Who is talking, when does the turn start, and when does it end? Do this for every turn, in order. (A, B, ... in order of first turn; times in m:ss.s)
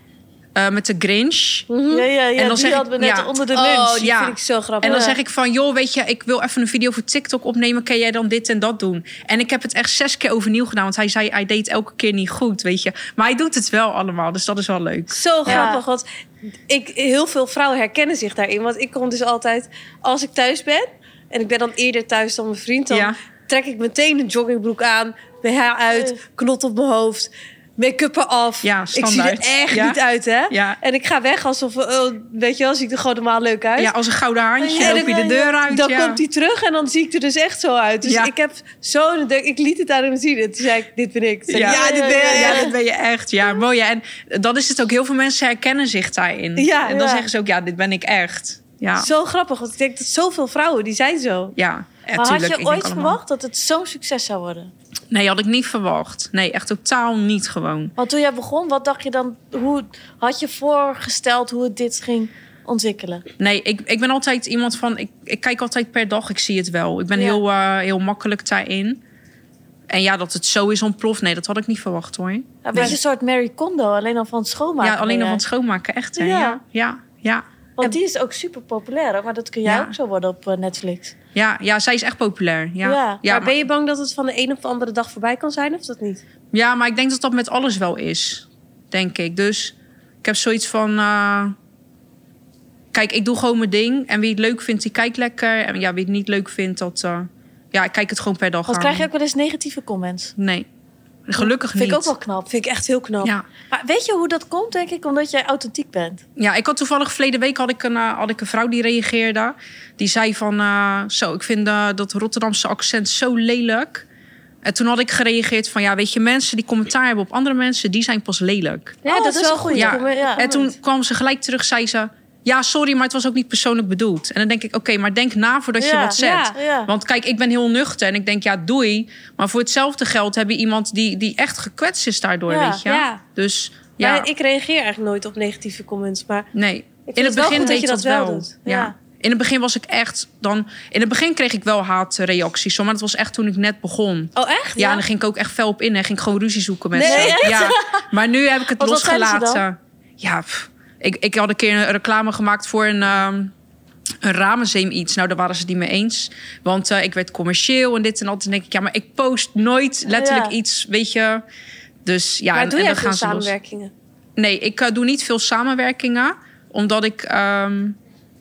0:00.6-0:01.7 A
0:01.7-0:02.1 B
0:01.9-0:04.1 C
0:02.4-0:03.4 A
0:03.5-0:05.1 B
0:04.0-0:15.7 A
0:04.8-0:05.2 C
0:15.1-0:16.0 B
0:15.4-0:15.8 C
0:16.7-0:33.9 B
0:22.9-0:23.2 A
0:28.6-0:30.0 A
0:30.5-0:30.8 A
0:33.8-0:36.2 A
0:34.6-0:35.5 C
0:34.8-0:42.7 B
0:38.0-0:38.3 A
0:41.5-0:49.1 A
0:41.6-0:42.7 C
0:46.6-0:47.1 B
0:46.9-0:47.3 C
0:49.0-0:51.5 B
0:51.6-0:53.2 A
0:52.1-0:54.7 C
0:55.1-0:57.9 A
0:58.0-1:03.2 C
1:03.4-1:09.0 A
1:07.2-1:07.4 C
1:09.9-1:13.0 A
1:12.6-1:15.4 C
1:14.8-1:17.4 A
1:16.2-1:16.6 C
1:17.8-1:21.1 C
1:19.6-1:19.9 A
1:21.3-1:23.6 A
1:22.8-1:23.2 C
1:23.3-1:26.2 B
1:26.5-1:31.6 A
1:32.9-1:39.1 A
1:38.7-1:40.3 C
1:40.4-1:40.7 A
1:41.2-1:42.1 A
1:41.4-1:42.5 C
1:42.5-1:43.3 B
1:43.7-1:46.2 C
1:46.4-1:54.0 A
1:54.6-1:59.0 A
1:59.0-2:00.7 B
1:59.0-2:00.4 C
1:59.7-2:14.3 A
2:05.8-2:06.9 C
2:06.2-2:06.6 B
2:12.5-2:12.8 C
2:12.8-2:13.2 B
2:14.0-2:16.5 B
2:16.5-2:33.5 A
2:17.1-2:18.5 B
2:18.6-2:18.9 C
2:24.4-2:25.0 B
2:27.0-2:27.5 B
2:27.0-2:28.0 C
2:28.8-2:29.6 C
2:34.2-2:41.4 A
2:40.1-2:40.5 C
2:42.0-2:43.5 A
2:42.5-2:43.9 B
2:44.4-2:48.0 A